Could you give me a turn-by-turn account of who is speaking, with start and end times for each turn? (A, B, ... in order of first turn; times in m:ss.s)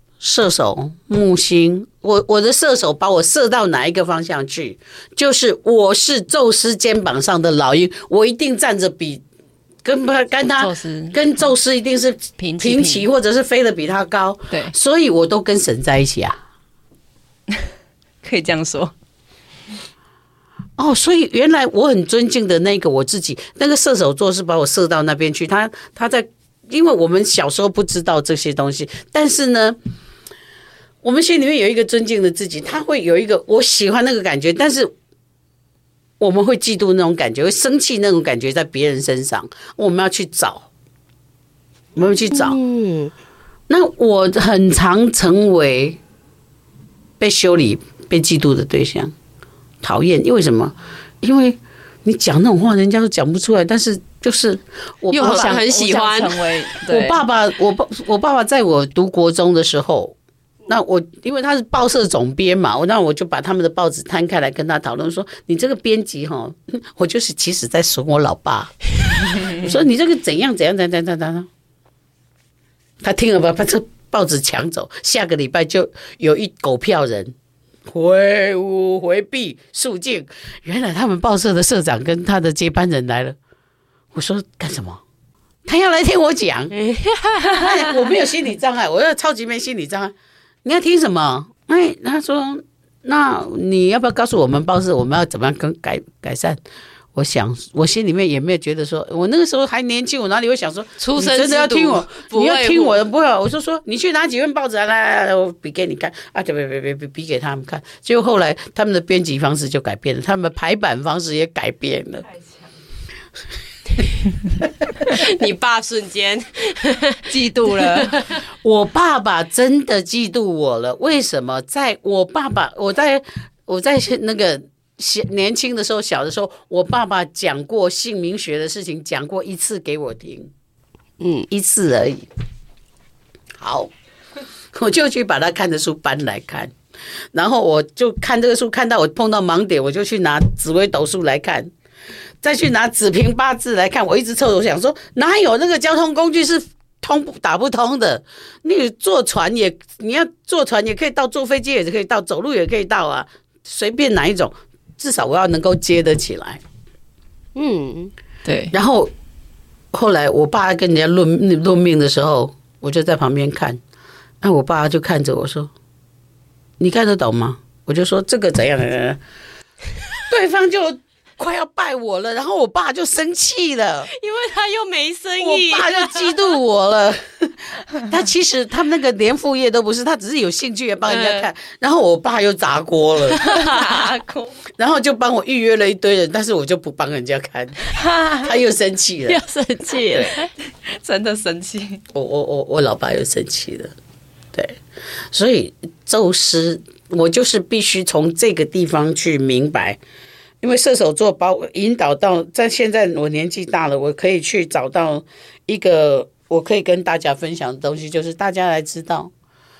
0:00.2-0:09.2 A
0:09.8-0:16.4 A
0:10.6-0:11.2 B
0:12.4-0:13.1 B
0:18.2-0:18.9 B
0:20.8-0:29.8 A
0:31.0-0:34.9 A
0:36.2-0:40.7 A
0:42.0-0:42.6 A
0:42.3-0:43.1 C
0:43.7-0:46.0 A
0:47.2-0:49.1 A
0:49.8-0:55.7 A
0:55.1-0:57.2 C
0:55.2-0:57.0 B
0:56.9-1:00.2 A
1:00.7-1:11.5 A
1:13.0-1:17.3 A
1:17.9-1:23.4 A
1:24.1-1:25.0 A
1:25.7-1:26.7 A
1:26.7-1:27.7 C
1:27.5-1:30.1 A
1:30.6-1:36.6 A
1:37.2-1:52.3 A
1:41.0-1:43.0 C
1:55.1-1:58.4 C
1:57.3-1:58.1 B
1:58.6-2:10.5 A
2:11.2-2:11.5 C
2:11.5-2:12.3 A
2:13.6-2:13.9 A
2:14.7-2:16.7 A
2:17.3-2:21.7 A
2:22.4-2:36.6 A
2:37.6-2:38.1 C
2:38.4-2:38.7 B
2:38.7-2:39.1 A
2:39.9-2:43.8 A
2:44.4-2:45.7 A
2:46.8-2:49.2 A
2:50.3-2:54.1 A
2:54.1-2:56.3 C
2:55.4-3:03.4 A
3:01.1-3:01.5 C
3:03.4-3:04.1 C
3:03.4-3:04.5 B
3:04.8-3:09.4 A
3:08.0-3:08.5 B
3:09.3-3:10.5 C
3:10.9-3:12.0 B
3:12.1-3:13.9 A
3:15.3-3:20.0 A
3:20.6-3:29.3 A